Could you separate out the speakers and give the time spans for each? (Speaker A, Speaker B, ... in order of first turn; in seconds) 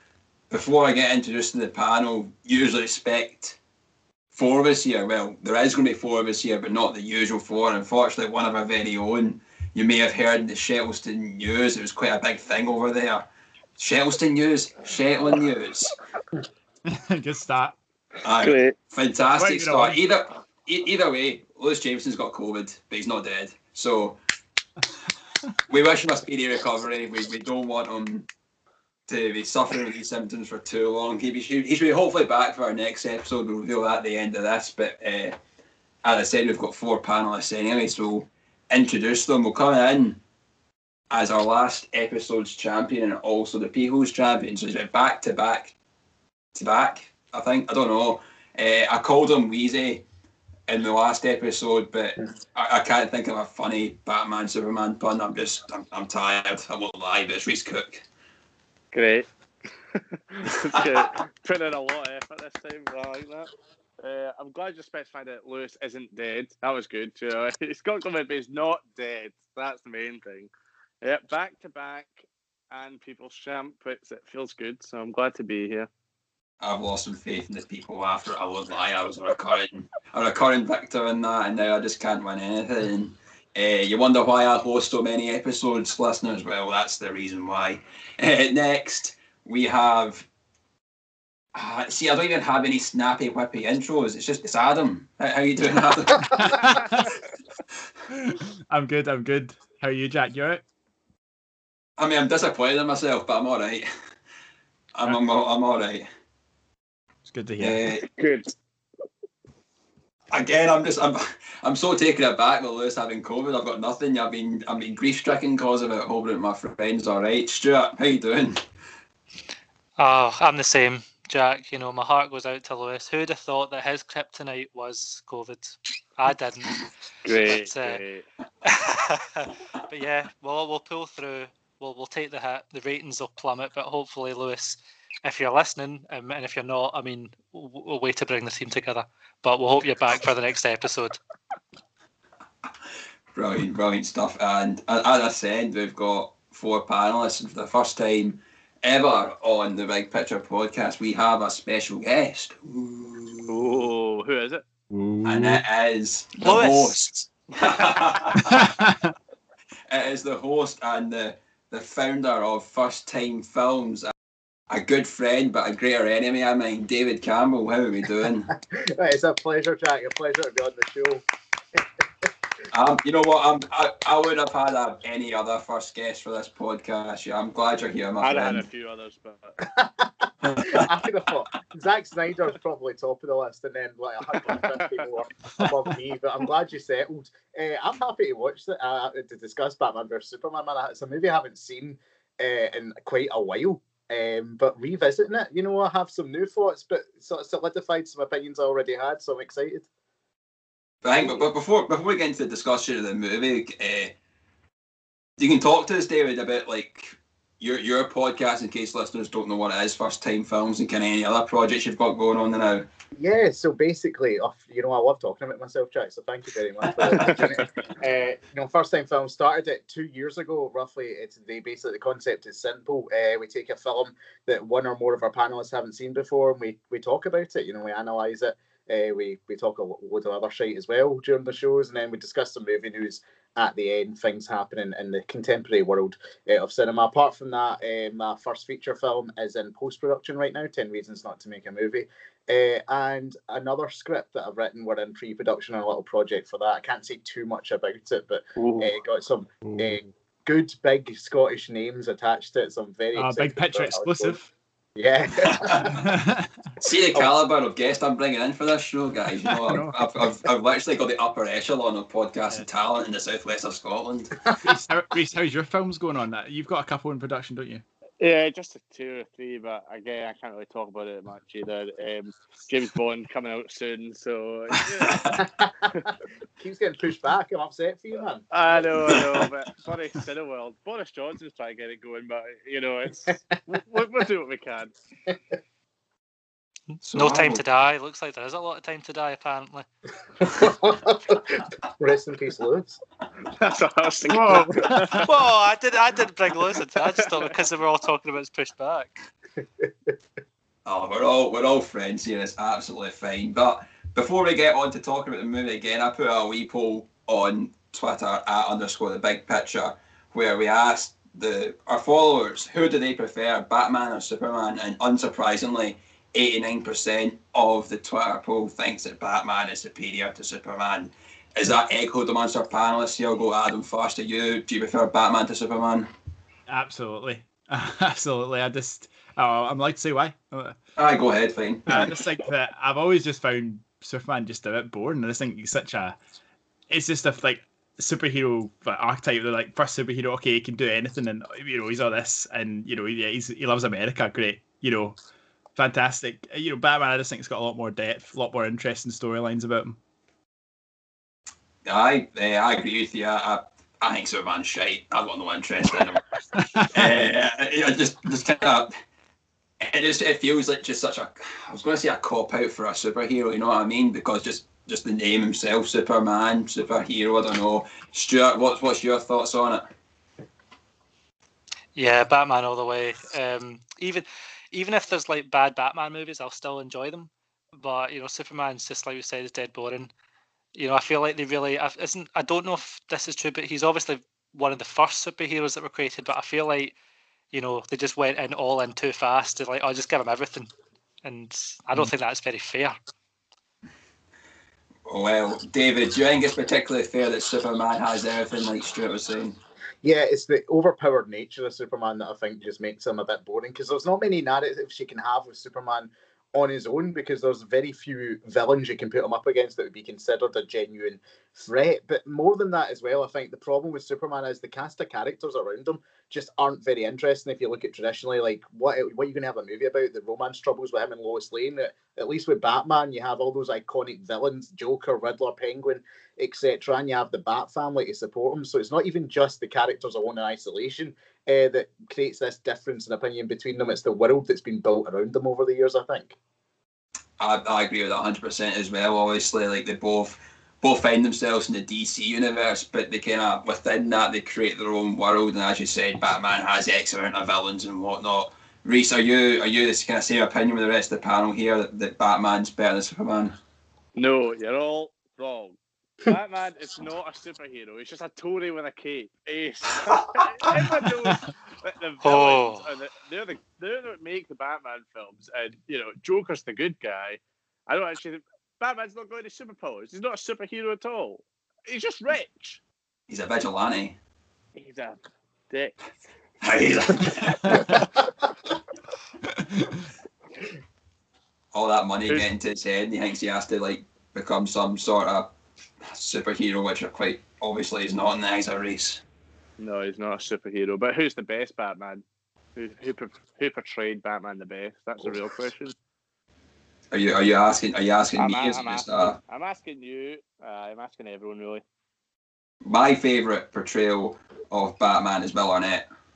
Speaker A: 0.5-3.6, 4.3-16.0, 18.2-24.2, 25.7-28.3, 29.1-35.4, 36.0-40.2, 41.1-45.7, 46.5-50.0, 50.7-58.0, 76.6-90.3, 91.5-96.7, 102.0-103.9, 104.9-106.1, 107.6-108.0, 110.3-118.6, 143.3-153.8, 155.2-158.6, 159.9-164.1, 164.7-168.5, 172.7-178.7, 180.5-180.9, 201.0-204.2, 205.4-212.9, 216.9-217.3, 255.4-255.9, 256.8-264.4, 275.1-275.4, 287.1-287.6, 300.9-326.1, 331.0-332.2, 351.9-356.3, 356.9-358.9, 359.8-369.9, 395.1-399.6, 437.4-453.6, 473.3-474.2, 476.6-477.9, 481.7-485.5, 486.1-489.2, 497.1-499.4, 502.8-506.1
Speaker B: 16.9-17.8, 19.4-20.0, 96.2-97.1, 98.1-100.6, 107.3-107.9, 154.9-155.6, 158.4-159.1, 249.6-250.0, 253.2-254.5, 255.8-256.5, 259.4-260.4, 264.6-267.8, 294.3-295.3, 326.7-330.8, 331.9-336.2, 336.9-345.2, 345.8-350.0, 356.5-357.2, 477.6-478.0, 479.5-480.1
Speaker C: 18.4-18.7, 58.9-59.3, 59.9-63.5, 64.0-70.5, 71.0-75.9, 108.0-108.5, 127.2-128.2, 153.5-154.6, 178.2-179.7, 184.3-184.7, 217.1-217.6, 248.6-248.9, 268.2-275.4, 278.5-284.9, 293.5-295.2, 454.1-472.8, 474.8-475.2, 475.7-476.0, 477.1-478.0, 489.8-492.2, 492.8-496.0, 498.4-501.8
Speaker D: 120.0-126.8, 127.3-128.0, 128.6-141.2, 156.4-157.3, 287.1-289.9, 295.2-299.2, 372.0-380.1, 380.8-386.9, 387.5-390.7, 391.2-392.9, 462.2-462.9
Speaker E: 168.7-171.2, 179.7-199.9, 213.2-254.4, 255.0-256.0, 275.4-276.1, 276.6-278.9, 290.5-293.0, 299.8-300.1, 400.0-436.4